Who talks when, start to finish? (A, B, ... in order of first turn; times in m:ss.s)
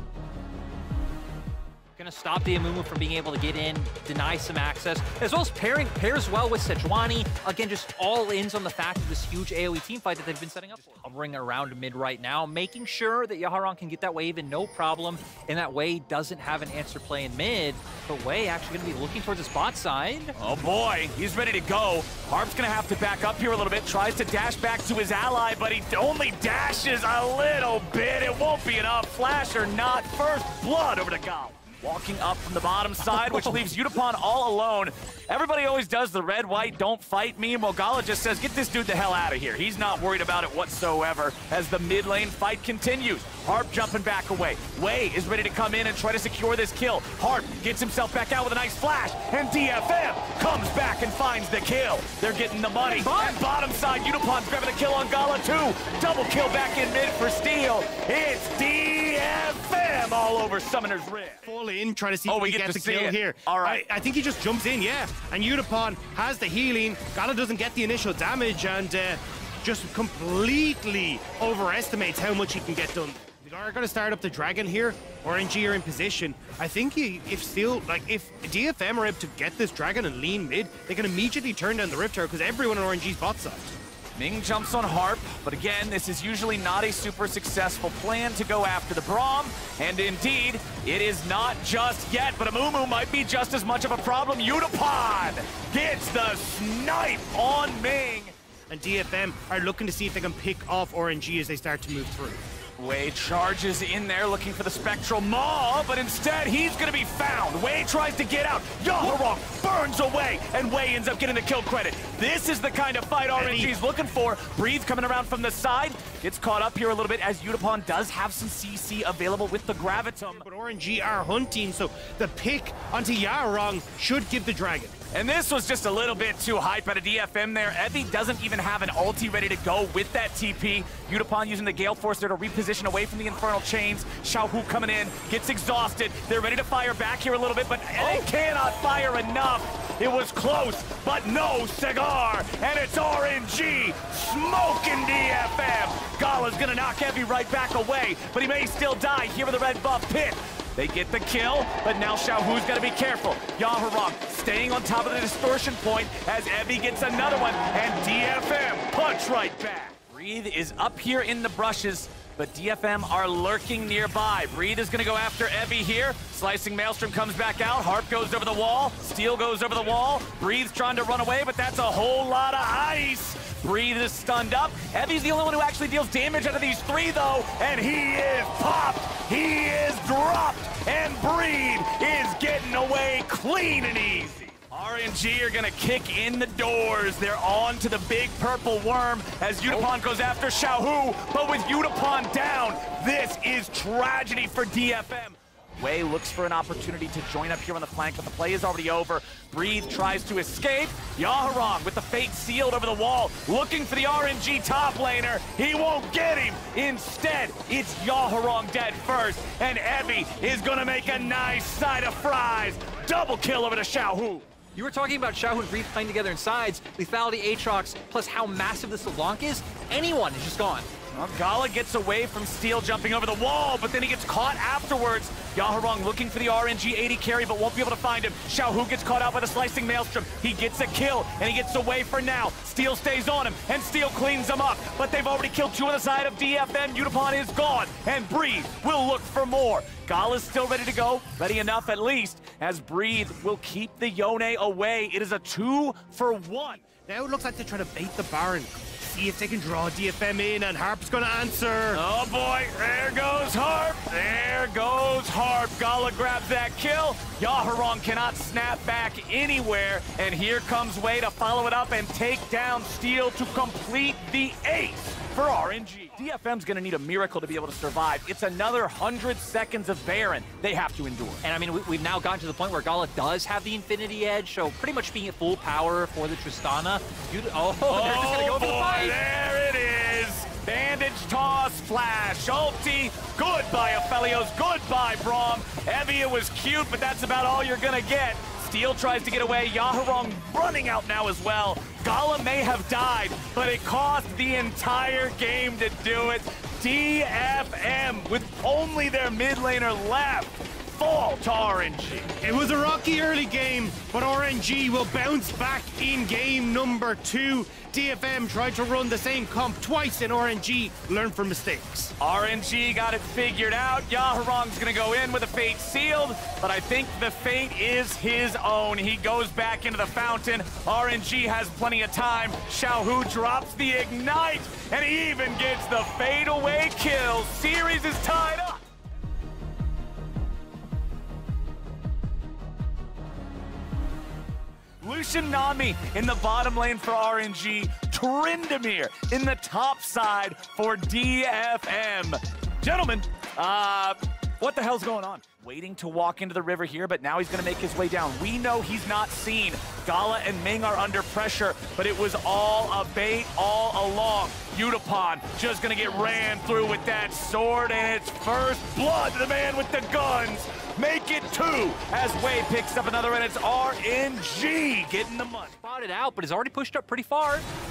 0:02.0-0:20.4 A
0:20.4-1:01.4 B
0:33.0-0:33.7 A
0:52.8-0:53.4 A
1:01.4-1:23.8 C
1:02.3-1:03.8 B
1:24.2-1:38.3 B
1:38.7-1:42.4 C
1:42.8-2:00.4 B
1:53.3-1:53.7 C
2:00.4-2:05.0 C
2:05.1-3:34.5 B
3:34.8-3:40.9 A
3:41.1-4:06.8 B
4:07.0-4:12.0 C
4:11.9-4:31.4 B
4:31.4-4:39.2 A
4:37.9-5:02.3 B
5:02.4-5:12.1 C
5:12.2-5:28.8 B
5:35.0-6:05.8 B
6:05.8-6:07.6 A